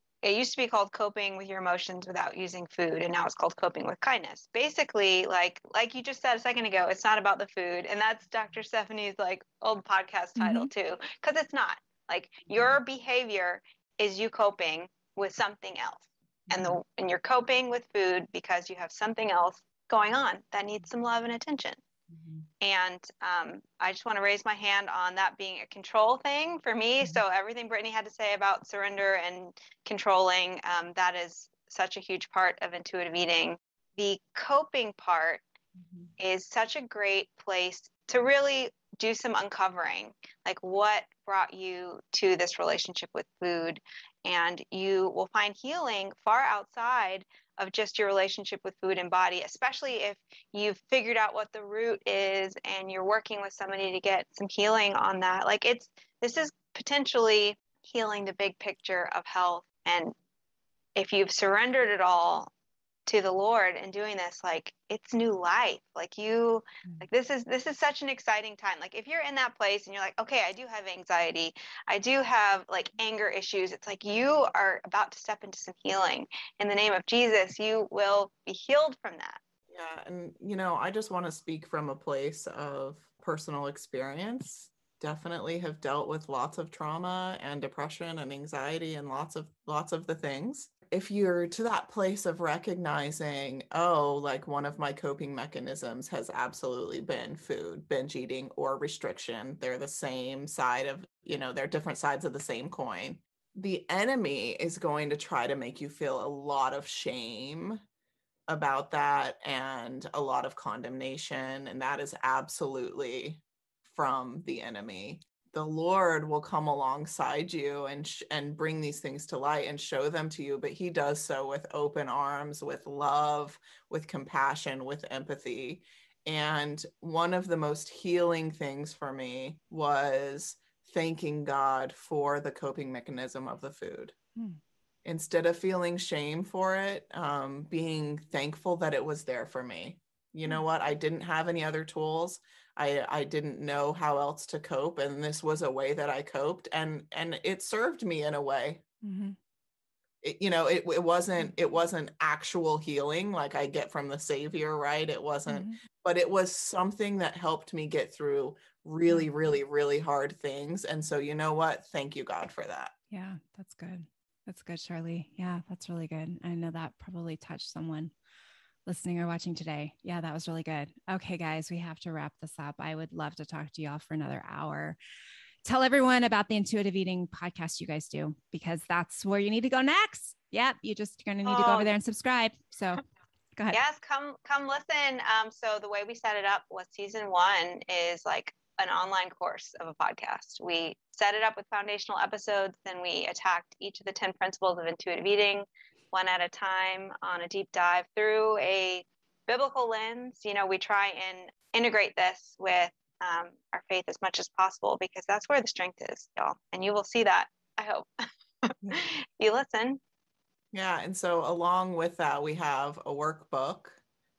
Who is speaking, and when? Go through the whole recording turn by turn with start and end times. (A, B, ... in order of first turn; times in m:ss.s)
0:00.2-0:21.8 A
0:10.4-0:10.7 B
0:16.5-0:16.8 C
0:22.1-0:22.4 C
0:22.6-0:35.4 A
0:36.2-1:00.1 A
1:01.0-1:02.5 A
1:03.1-1:19.4 A
1:19.7-1:47.8 C
1:48.5-2:14.1 C
2:15.0-2:28.8 C
2:29.0-2:29.4 B
2:30.2-2:42.9 C
2:35.5-2:35.8 B
2:43.1-2:48.1 B
2:48.8-2:55.0 B
2:55.6-3:03.0 B
3:01.4-3:01.9 A
3:03.7-3:28.1 A
3:28.6-3:30.0 A
3:30.7-3:34.0 C